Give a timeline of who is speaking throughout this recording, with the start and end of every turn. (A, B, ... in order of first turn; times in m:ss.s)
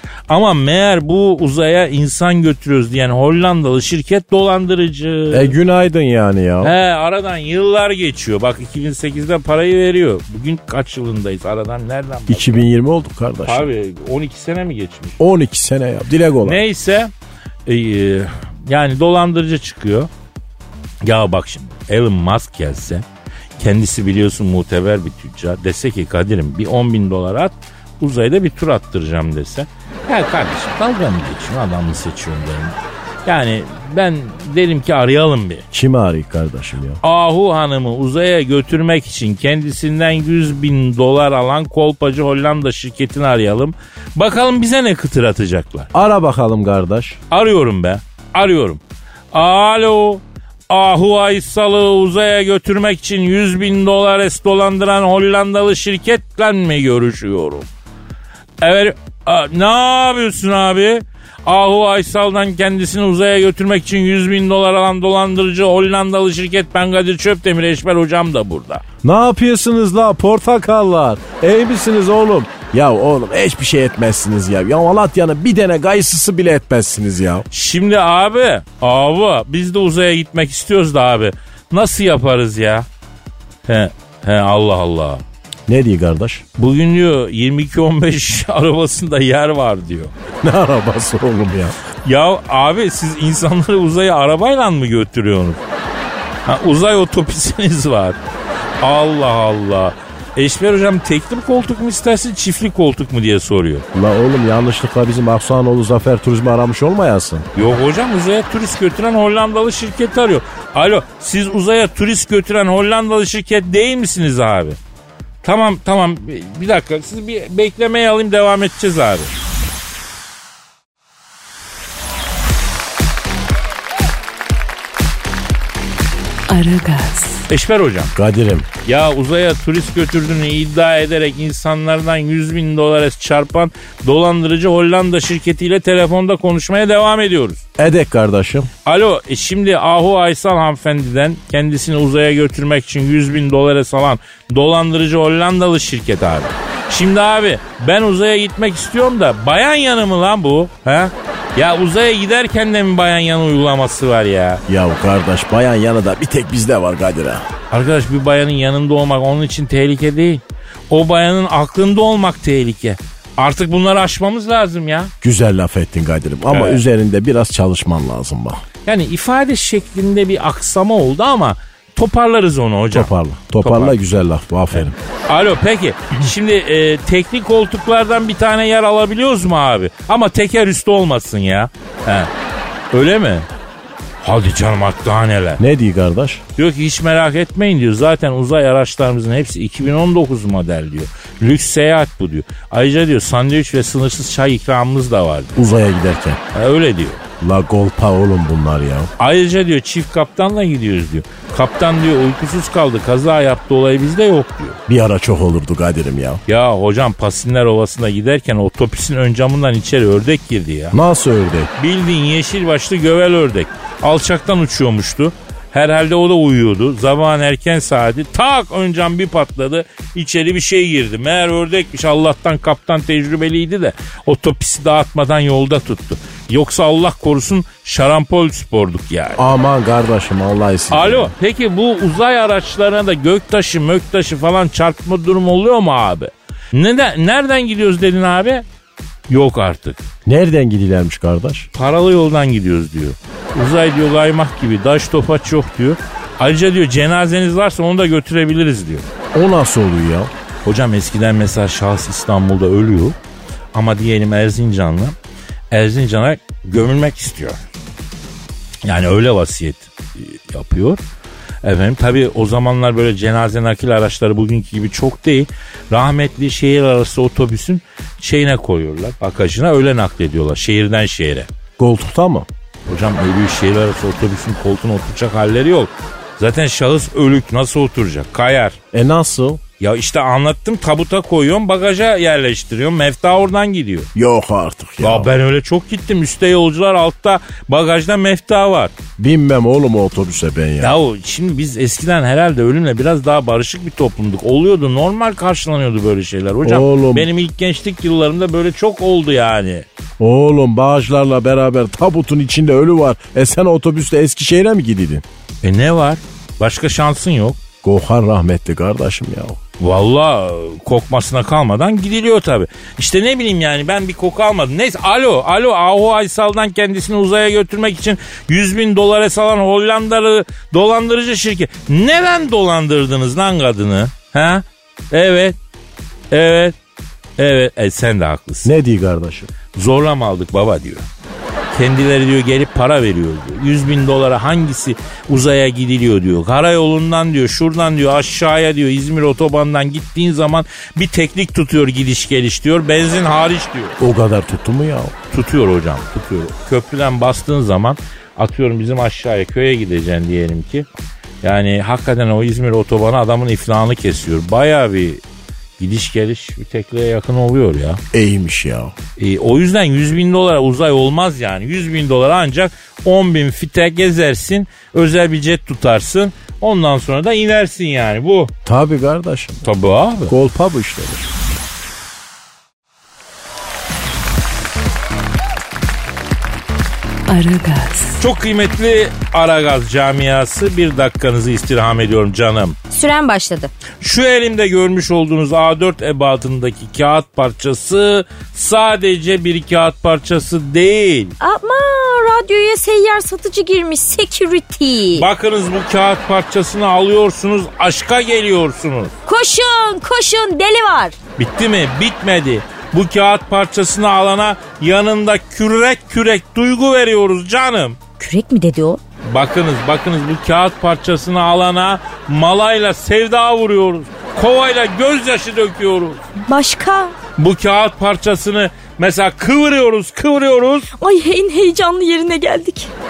0:00.3-0:05.6 A
0:05.3-0:06.7 B
0:06.6-0:12.6 A
0:12.3-0:13.7 B
0:13.5-0:15.2 A
0:15.2-0:16.6 B
0:16.4-0:17.1 A
0:17.6-0:20.1 A
0:21.0-0:23.0 A
0:23.6-0:35.6 A
0:35.7-0:37.0 B
0:37.0-0:45.9 A
0:45.9-0:47.2 B
0:47.3-0:48.8 A
0:49.3-0:57.7 A
0:58.6-1:08.8 A
1:09.0-1:17.5 B
1:17.5-1:22.9 A
1:23.7-1:25.2 A
1:25.7-1:26.4 B
1:26.6-1:30.1 A
1:30.4-1:31.8 B
1:32.0-1:35.6 A
1:36.4-1:38.2 A
1:38.8-1:43.8 A
1:43.9-1:47.5 B
1:47.6-1:54.8 A
1:55.4-1:59.3 A
2:06.5-2:07.5 C
2:07.5-2:08.1 A
2:08.1-2:08.7 B
2:08.8-2:17.6 A
2:17.8-2:18.7 B
2:18.8-2:34.6 A
2:34.7-2:37.5 B
2:37.7-2:45.1 A
2:45.2-2:48.6 B
2:46.5-2:46.8 A
2:48.9-2:54.0 A
2:52.9-2:54.9 B
2:54.8-3:02.3 A
3:02.9-3:03.5 A
3:04.2-3:05.6 A
3:05.6-3:06.4 B
3:06.6-3:15.6 A
3:15.6-3:16.4 B
3:16.5-3:17.2 A
3:17.4-3:19.1 B
3:19.2-3:24.8 A
3:24.9-3:26.4 B
3:26.5-3:31.0 A
3:30.9-3:31.7 B
3:31.8-3:49.4 A
3:49.4-3:51.3 B
3:50.9-3:58.6 A
3:59.3-4:00.0 A
4:00.3-4:01.7 B
4:01.8-4:09.1 A
4:09.3-4:10.3 B
4:10.6-4:13.2 A
4:13.7-4:15.2 A
4:15.7-4:17.6 A
4:18.8-4:21.0 A
4:21.6-4:31.5 A
4:31.8-4:32.5 B
4:32.9-4:38.8 A
4:38.9-4:39.6 B
4:39.8-4:44.1 A
4:44.1-4:45.3 B
4:45.0-4:48.9 A
4:49.2-4:51.0 B
4:50.8-4:59.9 A
4:56.6-4:57.3 B
5:00.2-5:05.2 B
5:05.6-5:07.6 A
5:07.8-5:09.6 B
5:09.8-5:25.6 A
5:26.3-5:26.8 A
5:27.4-5:28.7 A
5:28.6-5:29.5 B
5:29.7-5:31.0 A
5:31.7-5:44.0 A
5:44.0-5:45.1 B
5:45.3-5:50.9 A
5:51.4-5:55.2 A
5:55.8-5:58.0 A
5:58.1-5:58.9 B
5:59.2-6:08.5 A
6:08.6-6:09.6 B
6:09.6-6:10.3 A
6:10.3-6:11.3 B
6:17.3-6:18.2 C
6:18.2-6:22.8 A
6:22.9-6:23.7 D
6:24.0-6:31.4 A
6:31.4-6:35.3 D
6:35.1-6:39.1 A
6:39.3-6:41.2 D
6:41.4-6:48.0 A
6:48.2-6:49.0 D
6:49.2-6:56.2 A
6:56.4-6:57.2 D
6:57.4-7:00.9 A
7:01.0-7:02.9 D